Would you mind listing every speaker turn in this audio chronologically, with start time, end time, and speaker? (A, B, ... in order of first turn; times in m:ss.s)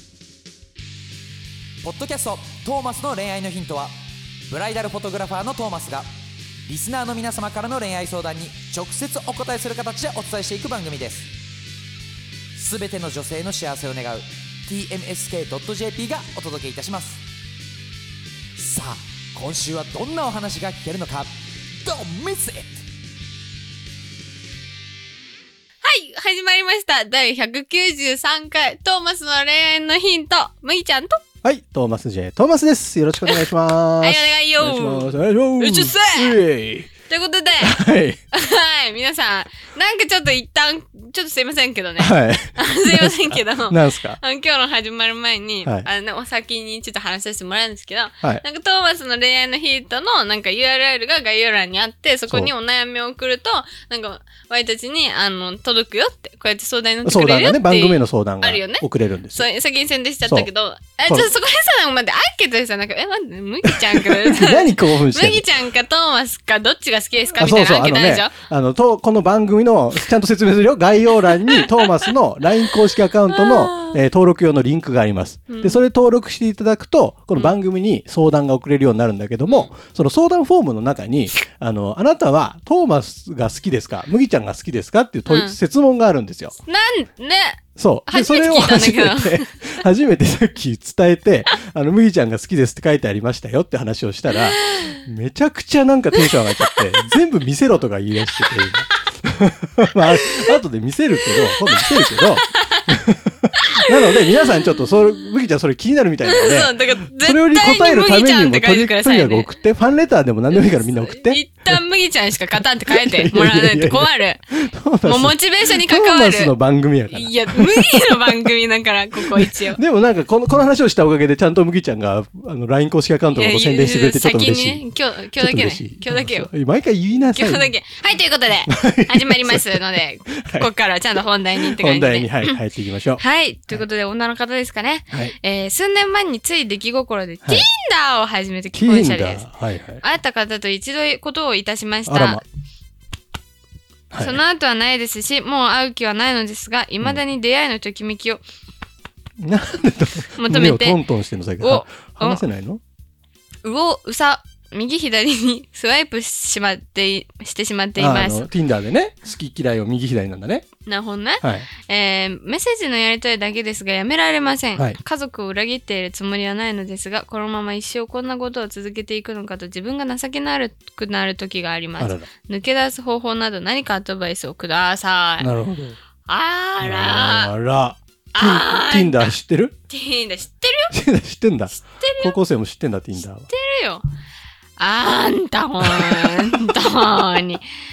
0:01.8-0:03.9 A
0:04.5-0:06.1 A
0:06.6-0:11.3 A
0:12.5-0:17.2 A
0:18.6-0:21.3 A
0:21.8-0:22.8 A
0:25.8-0:31.2 B
0:31.4-0:36.9 C
0:33.3-0:36.4 B
0:37.1-0:37.8 B
0:37.6-0:38.2 C
0:38.3-1:08.4 B
0:42.0-0:44.2 C
0:52.3-0:52.5 C
0:57.0-0:59.5 C
1:00.2-1:00.5 C
1:01.0-1:01.3 C
1:03.6-1:05.5 C
1:07.3-1:26.6 C
1:11.2-1:14.0 B
1:15.5-1:15.8 B
1:19.4-1:19.7 B
1:25.3-1:25.6 B
1:26.7-1:29.8 B
1:27.8-1:51.8 C
1:34.3-1:35.0 B
1:36.2-1:37.1 B
1:40.0-1:40.6 B
1:41.2-1:43.0 B
1:43.6-1:45.3 B
1:46.2-1:49.5 B
1:50.5-1:54.4 B
1:52.9-1:58.5 C
1:55.0-1:56.5 B
1:57.1-1:59.8 B
1:59.2-2:04.8 C
2:03.3-2:06.5 B
2:05.4-2:07.7 C
2:07.3-2:12.6 B
2:08.7-2:10.7 C
2:11.6-2:13.8 C
2:13.2-2:19.5 B
2:18.7-2:20.0 C
2:20.0-2:22.4 B
2:22.1-2:22.4 C
2:24.1-2:24.4 C
2:24.2-2:28.4 B
2:29.4-2:32.8 C
2:30.4-2:31.0 B
2:31.6-2:32.4 B
2:33.6-2:38.5 B
2:38.0-2:40.7 C
2:40.8-2:55.5 B
2:41.4-2:41.7 C
2:52.0-2:52.3 C
2:55.4-2:56.0 C
2:56.3-2:57.5 B
2:56.8-2:59.8 C
2:58.3-2:59.3 B
2:59.9-3:00.9 B
3:00.9-3:03.5 C
3:01.7-3:02.3 B
3:03.5-3:04.0 B
3:04.8-3:07.6 B
3:05.8-3:06.5 C